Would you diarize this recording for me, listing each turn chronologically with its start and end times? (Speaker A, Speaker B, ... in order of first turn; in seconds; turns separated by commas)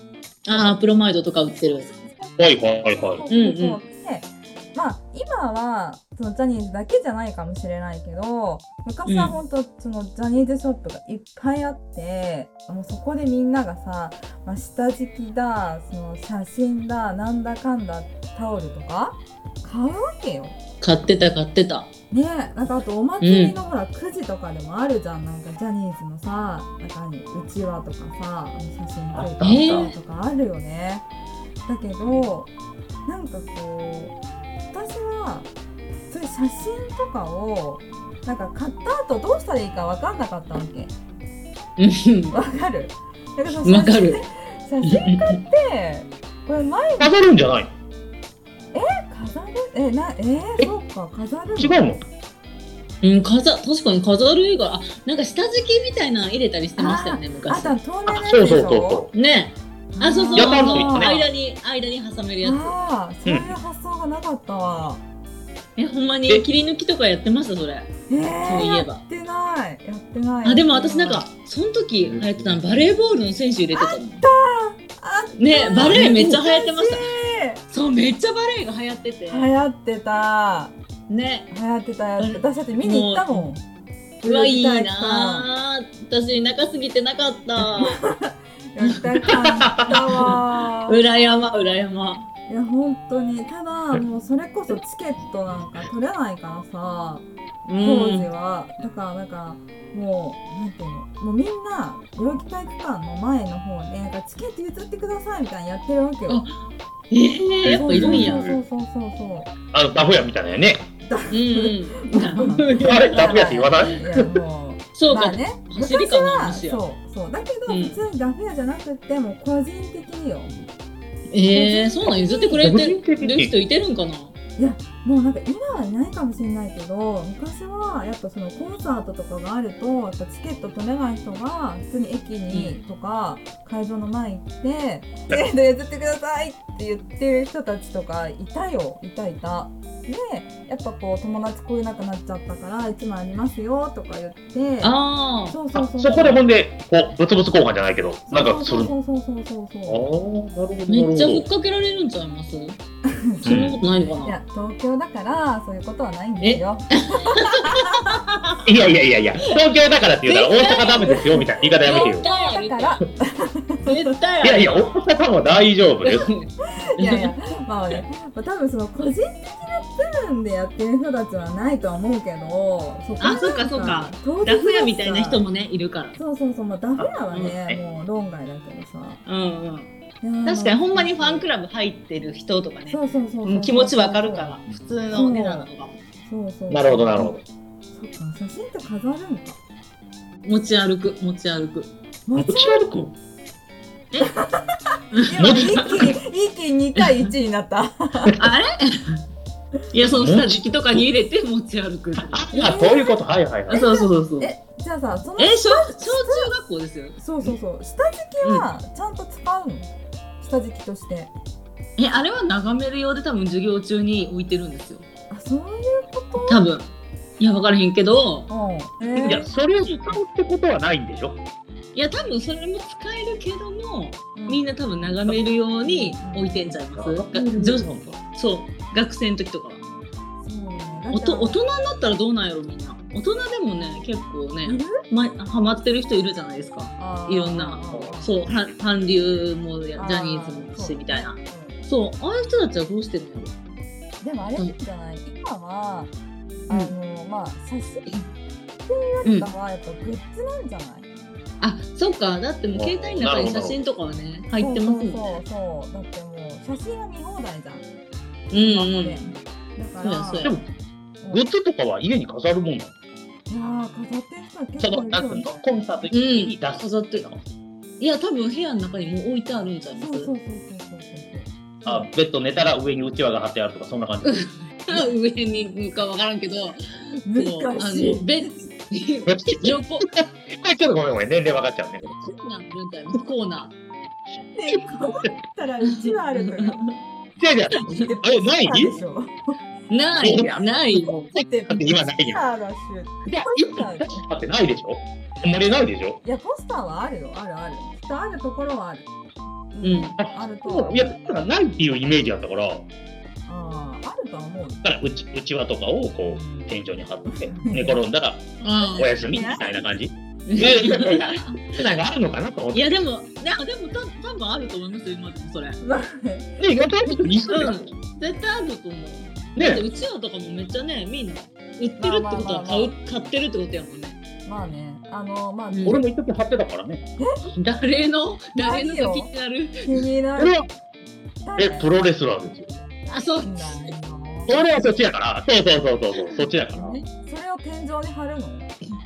Speaker A: 0.5-1.9, Speaker B: 0.5-0.8, Speaker B: 1.5-20.6, Speaker C: 2.4-3.2, Speaker A: 3.3-3.8, Speaker A: 9.1-9.3, Speaker A: 20.8-21.9, Speaker B: 22.1-31.1, Speaker A: 23.2-23.6, Speaker C: 29.1-29.9, Speaker A: 29.4-29.9, Speaker B: 31.7-32.5, Speaker B: 33.1-34.2, Speaker B: 34.7-35.5, Speaker B: 36.1-40.9, Speaker A: 41.8-42.4, Speaker B: 42.3-47.2, Speaker A: 43.6-44.2, Speaker A: 44.8-45.4, Speaker C: 47.0-47.7, Speaker B: 48.7-51.9, Speaker C: 51.6-52.0, Speaker A: 53.0-57.8, Speaker B: 56.8-59.1, Speaker C: 58.1-59.1, Speaker A: 59.1-62.7, Speaker B: 60.0-61.2, Speaker C: 60.3-61.3, Speaker B: 62.4-65.0, Speaker C: 63.3-63.5, Speaker A: 65.8-67.9, Speaker B: 68.1-71.2, Speaker A: 68.4-69.0, Speaker A: 70.5-74.2, Speaker B: 73.7-77.6, Speaker A: 75.4-77.1, Speaker C: 75.8-76.3, Speaker A: 77.7-79.5, Speaker B: 79.3-80.7, Speaker A: 81.1-81.5, Speaker B: 81.5-83.6, Speaker A: 82.2-83.5, Speaker B: 84.2-85.5, Speaker A: 84.2-88.0, Speaker B: 87.8-91.0, Speaker A: 88.8-92.3, Speaker B: 92.5-97.3, Speaker A: 97.7-98.3, Speaker B: 97.8-106.5, Speaker A: 106.3-106.5, Speaker A: 107.1-108.5, Speaker C: 107.6-108.6, Speaker B: 107.7-109.5, Speaker C: 109.7-110.9, Speaker B: 111.1-120.5, Speaker A: 111.3-113.9, Speaker C: 112.8-114.4, Speaker A: 115.0-116.8, Speaker A: 117.7-118.0, Speaker A: 121.3-124.3, Speaker B: 121.5-122.8, Speaker C: 122.6-123.5, Speaker B: 124.6-146.5, Speaker A: 132.5-132.8, Speaker A: 144.8-145.6, Speaker C: 145.7-148.9, Speaker B: 148.3-150.1, Speaker C: 149.9-151.5, Speaker A: 150.9-152.8, Speaker B: 153.1-158.2, Speaker A: 153.4-154.4, Speaker C: 153.5-153.8, Speaker A: 156.4-158.9, Speaker C: 158.7-162.3, Speaker A: 160.2-163.0, Speaker B: 161.0-163.9, Speaker A: 163.8-165.1, Speaker C: 164.4-166.3, Speaker A: 166.0-167.4, Speaker B: 167.0-175.4, Speaker A: 173.2-176.2, Speaker B: 176.2-179.2, Speaker A: 177.3-177.8, Speaker A: 179.3-179.9, Speaker B: 180.2-181.5, Speaker A: 180.4-186.0, Speaker B: 182.9-184.6, Speaker B: 185.1-185.7, Speaker B: 186.2-187.4, Speaker C: 186.7-187.4, Speaker B: 187.9-189.6, Speaker A: 190.4-191.9, Speaker B: 192.3-192.9, Speaker C: 192.4-193.1, Speaker B: 194.2-198.4, Speaker A: 195.2-196.2, Speaker C: 195.4-195.8, Speaker A: 197.0-197.3, Speaker A: 198.4-199.2, Speaker A: 199.9-202.8, Speaker C: 200.1-200.7, Speaker C: 202.3-203.8, Speaker B: 202.5-206.5, Speaker A: 203.7-204.5, Speaker A: 205.4-207.6, Speaker B: 207.2-211.3, Speaker A: 208.4-208.7, Speaker A: 212.0-215.1, Speaker B: 215.3-216.7, Speaker A: 216.4-218.5, Speaker B: 218.5-219.5, Speaker A: 219.0-220.2, Speaker C: 219.2-221.4, Speaker A: 221.9-229.8, Speaker B: 224.3-224.7, Speaker B: 225.8-226.8, Speaker C: 226.9-228.2, Speaker B: 230.4-231.6, Speaker A: 231.1-243.5, Speaker B: 234.6-235.0, Speaker B: 237.0-238.3, Speaker B: 240.0-241.9, Speaker B: 244.2-246.1, Speaker B: 246.7-248.1, Speaker B: 248.8-251.1, Speaker A: 251.6-255.3, Speaker C: 252.7-253.8, Speaker B: 254.6-257.9, Speaker A: 258.5-259.2, Speaker B: 258.6-260.5, Speaker A: 260.0-260.6, Speaker B: 261.2-261.5, Speaker C: 261.3-262.9, Speaker B: 263.5-265.7, Speaker C: 264.8-267.4, Speaker A: 266.1-267.2, Speaker A: 268.0-270.3, Speaker B: 270.0-272.1, Speaker C: 271.9-274.4, Speaker A: 274.2-280.1, Speaker B: 277.3-278.6, Speaker C: 279.3-282.0, Speaker A: 282.0-283.8, Speaker B: 284.5-286.9, Speaker A: 285.9-286.8, Speaker C: 287.4-288.9, Speaker B: 287.8-289.4, Speaker A: 289.9-291.4, Speaker C: 290.2-290.6, Speaker B: 291.0-294.2, Speaker C: 291.7-292.5, Speaker C: 293.2-296.2, Speaker B: 296.2-299.1, Speaker B: 299.7-301.2, Speaker A: 299.8-300.2, Speaker C: 300.2-302.9, Speaker B: 303.5-304.9, Speaker C: 304.8-308.4, Speaker B: 306.2-308.0, Speaker A: 308.6-309.7, Speaker C: 308.9-312.9, Speaker B: 309.4-309.6, Speaker A: 310.5-311.6, Speaker A: 312.7-315.8, Speaker B: 315.8-317.3, Speaker C: 316.6-317.9, Speaker A: 317.5-324.2, Speaker C: 319.6-319.9, Speaker B: 322.0-322.9, Speaker B: 324.4-325.9, Speaker A: 325.7-326.0, Speaker C: 325.9-327.0, Speaker A: 327.6-330.0, Speaker B: 328.6-329.3, Speaker B: 329.8-330.6, Speaker C: 330.4-330.7, Speaker B: 331.4-331.9, Speaker C: 331.6-332.7, Speaker A: 333.1-333.9, Speaker B: 333.4-334.7, Speaker C: 334.5-337.0, Speaker A: 336.8-337.0, Speaker B: 337.1-338.7